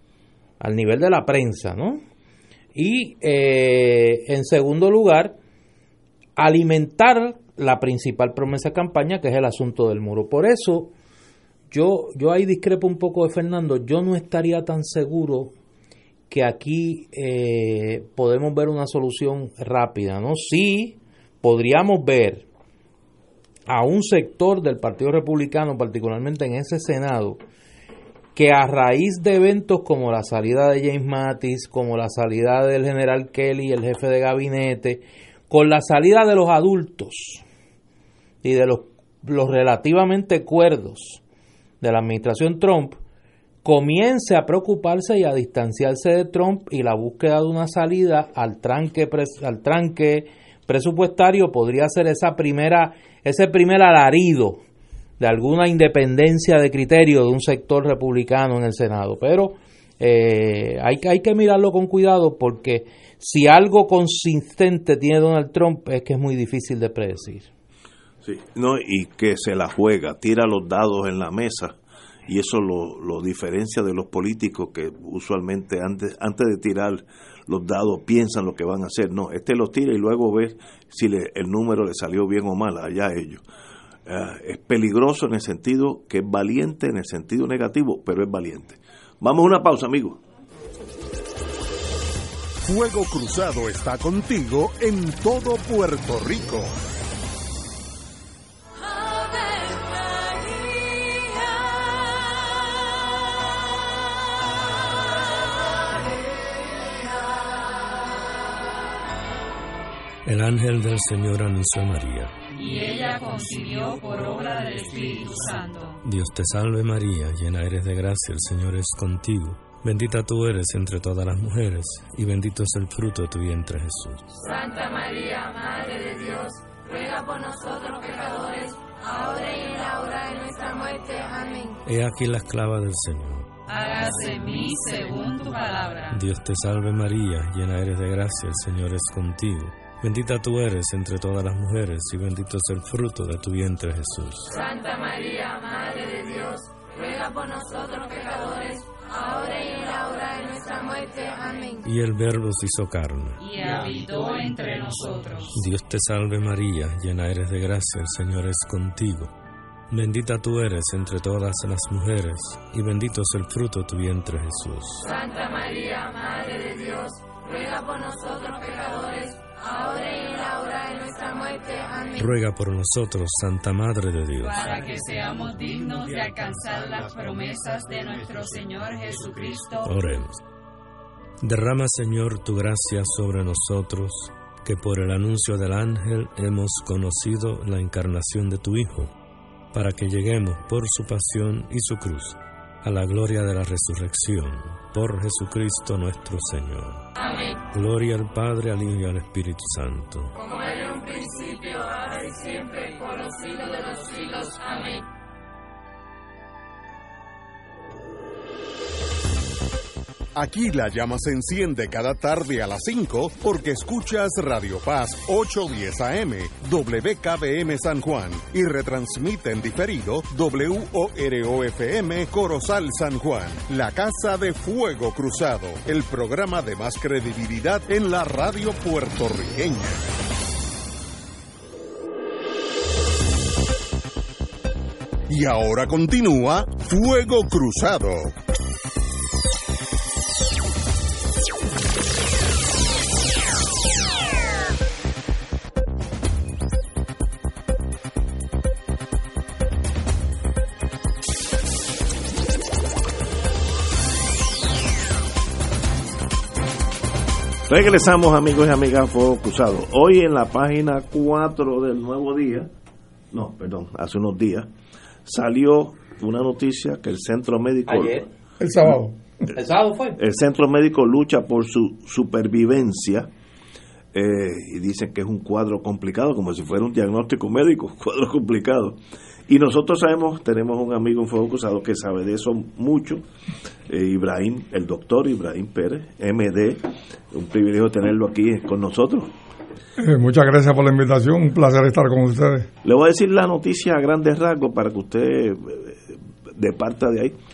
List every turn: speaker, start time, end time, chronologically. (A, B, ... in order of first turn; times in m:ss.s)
0:00.6-0:02.0 A
0:02.8-0:05.4 A
0:06.4-0:10.9 A
0:11.7-0:15.5 A
0:16.3-0:22.5 A
0:23.7-0:27.4 A
0:28.4-0:37.4 A
0:38.4-0:41.2 A
0:41.8-0:43.0 A
0:43.6-0:54.6 A
0:55.2-1:07.5 A
1:08.2-1:11.8 B
1:12.3-1:23.4 B
1:24.1-1:30.2 B
1:32.6-1:36.7 C
1:50.2-1:52.4 D
1:52.6-1:56.0 E
1:56.0-2:04.3 D
2:04.4-2:11.8 E
2:11.9-2:13.5 D
2:13.7-2:16.2 E
2:16.1-2:24.5 D
2:24.5-2:31.9 E
2:31.8-2:33.4 D
2:33.4-2:35.6 E
2:35.6-2:39.3 D
2:39.9-2:45.1 D
2:45.0-2:52.3 E
2:52.2-2:54.6 D
2:54.4-2:59.9 E
2:59.8-3:00.4 D
3:01.4-3:09.2 D
3:09.7-3:17.0 D
3:17.2-3:17.6 E
3:17.7-3:20.4 D
3:20.4-3:25.0 E
3:30.4-3:50.0 C
3:55.3-3:58.4 C
4:17.7-4:22.7 B
4:23.3-4:24.7 B
4:25.3-4:28.2 B
4:27.9-4:28.2 A
4:28.6-4:29.2 F
4:29.5-4:30.2 A
4:30.2-4:33.3 B
4:34.1-4:43.2 B
4:43.9-4:49.3 B
4:50.0-4:52.7 F
4:52.8-4:57.4 B